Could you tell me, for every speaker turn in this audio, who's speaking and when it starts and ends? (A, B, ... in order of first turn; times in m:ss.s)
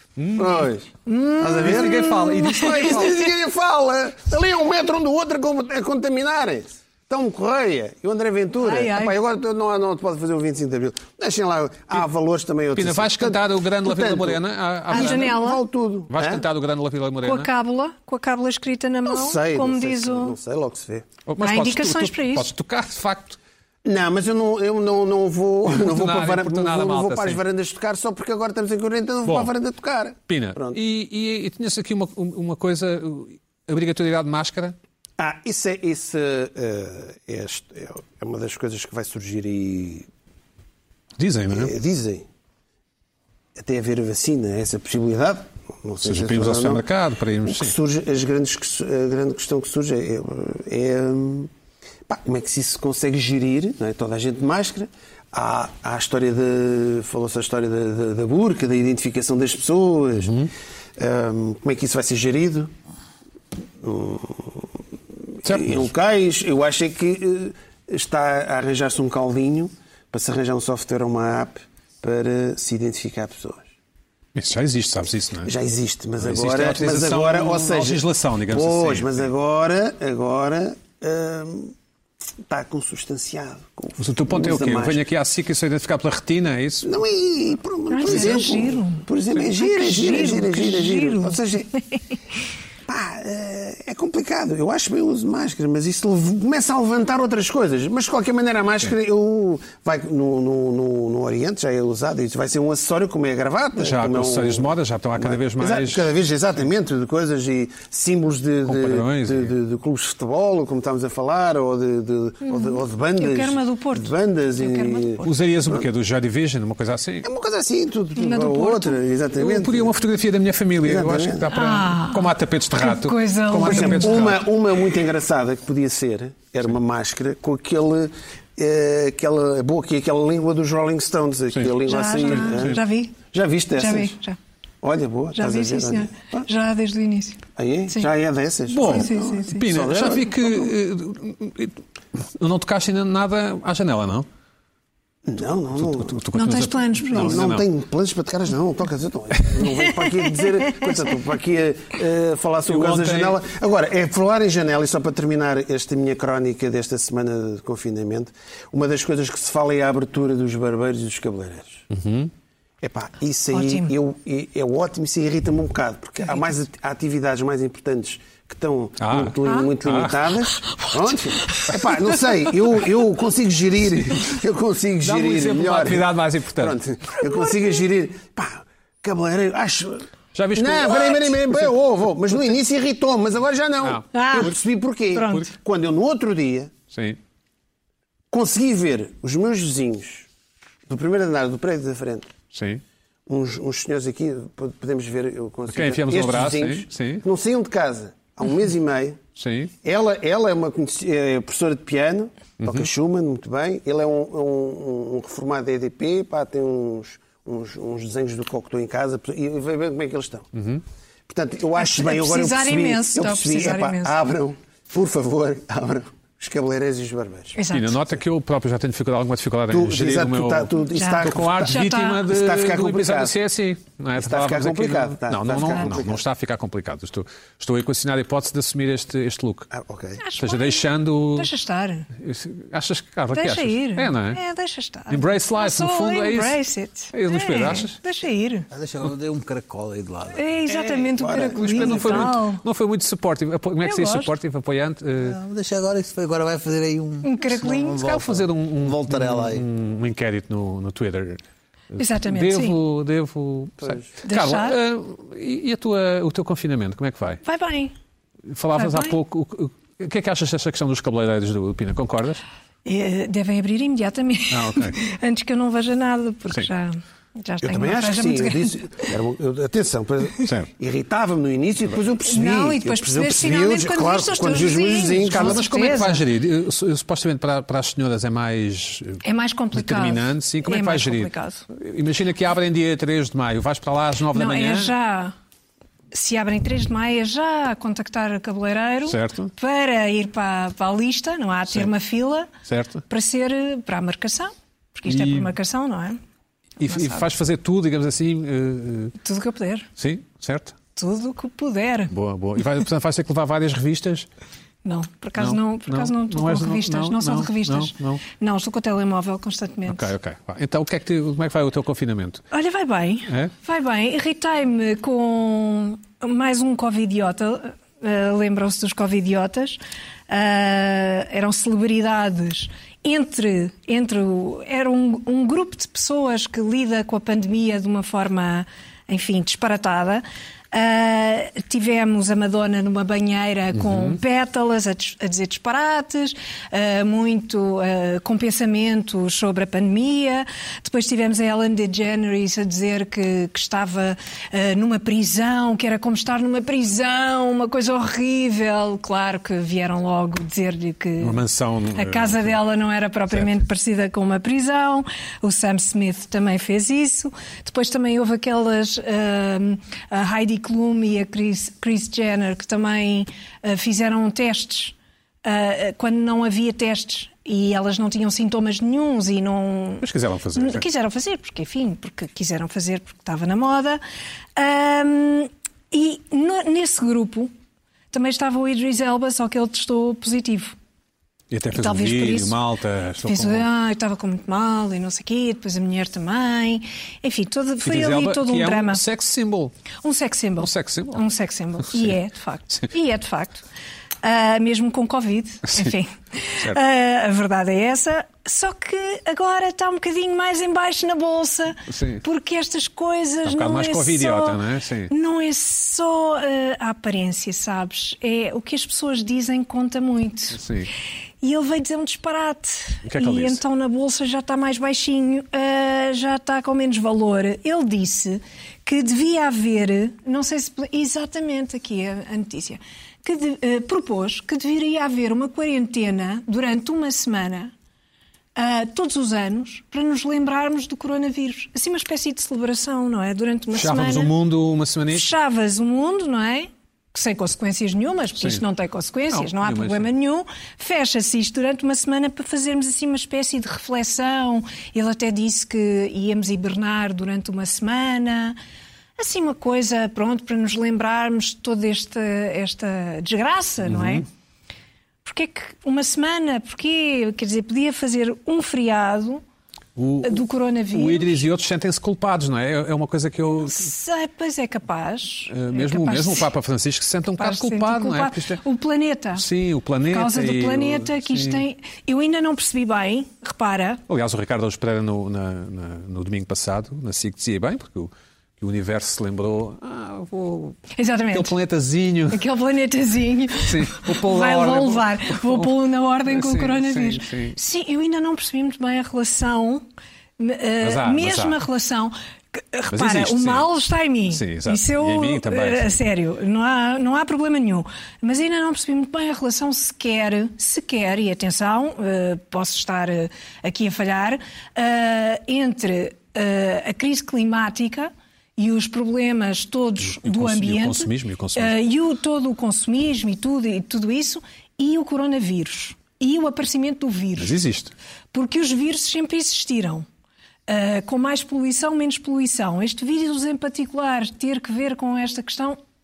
0:00.2-0:00.7 A
0:00.4-0:16.4 B
0:01.0-0:03.1 C
0:01.6-0:03.2 A
0:08.6-0:09.2 C
0:12.7-0:15.4 A
0:14.9-0:15.6 C
0:16.1-0:17.5 A
0:17.2-0:20.4 C
0:19.0-0:21.1 B
0:21.3-0:23.4 A
0:21.4-0:22.5 C
0:23.8-0:30.8 B
0:25.7-0:27.4 A
0:29.2-0:29.5 A
0:30.3-0:34.8 A
0:35.2-0:40.1 B
0:41.2-0:41.7 A
0:41.5-0:42.2 B
0:43.6-0:46.8 B
0:46.0-0:47.7 A
0:47.4-0:51.5 B
0:52.1-1:00.3 B
1:00.2-1:00.5 A
1:01.0-1:02.7 B
1:03.8-1:04.7 B
1:05.4-1:13.7 B
1:05.4-1:05.9 A
1:14.3-1:15.5 A
1:15.4-1:21.7 B
1:16.2-1:19.3 A
1:22.5-1:25.0 B
1:24.0-1:26.9 A
1:26.8-1:31.7 B
1:27.9-1:32.0 C
1:32.9-1:55.8 B
1:43.8-1:46.0 A
1:48.6-1:49.5 A
1:52.4-1:55.3 C
1:55.2-1:57.3 A
1:57.2-1:59.9 B
1:58.2-1:59.0 C
1:59.4-2:04.4 A
2:00.8-2:01.5 B
2:01.5-2:04.3 C
2:03.6-2:14.2 B
2:11.5-2:12.8 A
2:11.8-2:14.4 C
2:14.8-2:16.5 B
2:15.3-2:18.1 C
2:17.6-2:20.7 B
2:18.7-2:21.8 A
2:18.8-2:19.6 C
2:22.4-2:24.3 A
2:25.2-2:26.2 B
2:25.8-2:27.6 A
2:26.3-2:27.5 C
2:27.1-2:41.8 B
2:30.0-2:31.0 C
2:32.6-2:33.4 A
2:41.9-2:42.3 A
2:42.8-3:06.7 B
2:43.5-2:43.9 C
2:49.0-2:50.3 A
2:50.7-2:51.8 C
2:55.0-2:56.8 A
2:57.2-2:57.8 C
3:00.3-3:01.7 A
3:03.8-3:04.5 A
3:04.1-3:04.5 C
3:05.1-3:05.4 C
3:06.9-3:07.2 A
3:08.3-3:10.3 B
3:10.9-3:12.3 B
3:12.5-3:12.8 A
3:13.3-3:19.2 B
3:15.7-3:17.2 A
3:19.4-3:19.7 A
3:19.8-3:30.5 B
3:22.6-3:22.9 A
3:30.5-3:30.8 A
3:31.3-3:37.6 B
3:31.8-3:34.2 C
3:37.5-3:38.0 C
3:37.7-3:49.7 A
3:39.7-3:43.4 B
3:40.9-3:42.2 C
3:44.2-3:46.2 B
3:49.7-3:50.2 B
3:50.2-3:52.1 C
3:50.4-3:51.5 A
3:52.1-3:54.4 A
3:53.3-3:58.7 C
3:55.1-3:56.6 A
3:57.1-3:58.0 A
3:58.7-4:00.4 D
4:00.3-4:02.6 C
4:00.7-4:02.3 B
4:01.5-4:05.4 A
4:03.8-4:04.3 C
4:05.2-4:09.6 D
4:07.2-4:08.0 C
4:08.0-4:17.4 A
4:12.0-4:12.8 C
4:13.8-4:14.0 B
4:14.2-4:14.8 C
4:17.4-4:17.9 C
4:18.5-4:22.4 A
4:18.7-4:19.2 C
4:22.8-4:29.0 C
4:24.5-4:25.0 A
4:27.6-4:35.6 B
4:30.4-4:30.7 A
4:32.2-4:36.2 C
4:35.3-4:39.2 A
4:39.2-4:41.6 C
4:39.7-4:44.9 A
4:44.3-4:45.3 C
4:46.1-4:52.5 C
4:49.0-4:49.5 A
4:52.6-4:53.0 A
4:53.1-4:56.2 C
4:55.1-4:55.5 A
4:56.8-4:59.1 A
4:56.9-4:57.2 C
4:59.2-4:59.9 C
5:00.0-5:00.8 A
5:01.0-5:02.1 C
5:02.1-5:04.3 A
5:04.8-5:10.1 C
5:05.4-5:08.2 A
5:09.9-5:12.4 A
5:12.5-5:51.4 C
5:33.8-5:34.2 A
5:51.2-5:52.6 A
5:51.9-6:14.0 C
6:10.0-6:10.8 A
6:14.6-6:17.5 C
6:18.1-6:20.8 C
6:21.5-6:23.7 A
6:21.7-6:22.6 C
6:23.2-6:29.0 C
6:27.8-6:29.7 A
6:30.0-6:33.6 C
6:30.6-6:31.2 A
6:34.2-6:50.6 C
6:41.9-6:42.2 A
6:43.4-6:45.1 A
6:50.5-6:50.9 A
6:51.4-7:07.7 C
6:53.0-6:53.6 A
7:08.6-7:14.3 C
7:13.7-7:15.3 A
7:15.1-7:28.6 C
7:19.3-7:20.1 A
7:29.2-7:34.2 C
7:33.8-7:34.2 A
7:35.2-7:39.4 C
7:40.0-7:43.9 A
7:40.2-7:41.4 C
7:43.6-7:46.5 C
7:45.5-7:48.6 A
7:47.4-7:49.4 C
7:49.3-7:51.6 A
7:50.1-7:54.0 C
7:54.1-8:02.4 A
8:01.0-8:01.6 C
8:02.3-8:09.8 C
8:03.6-8:05.7 A
8:06.3-8:07.6 A
8:10.4-8:37.6 C
8:10.8-8:11.6 A
8:12.9-8:13.7 A
8:14.3-8:16.0 A
8:30.0-8:31.7 A
8:37.4-8:37.9 A
8:38.3-8:40.0 C
8:40.7-8:45.8 C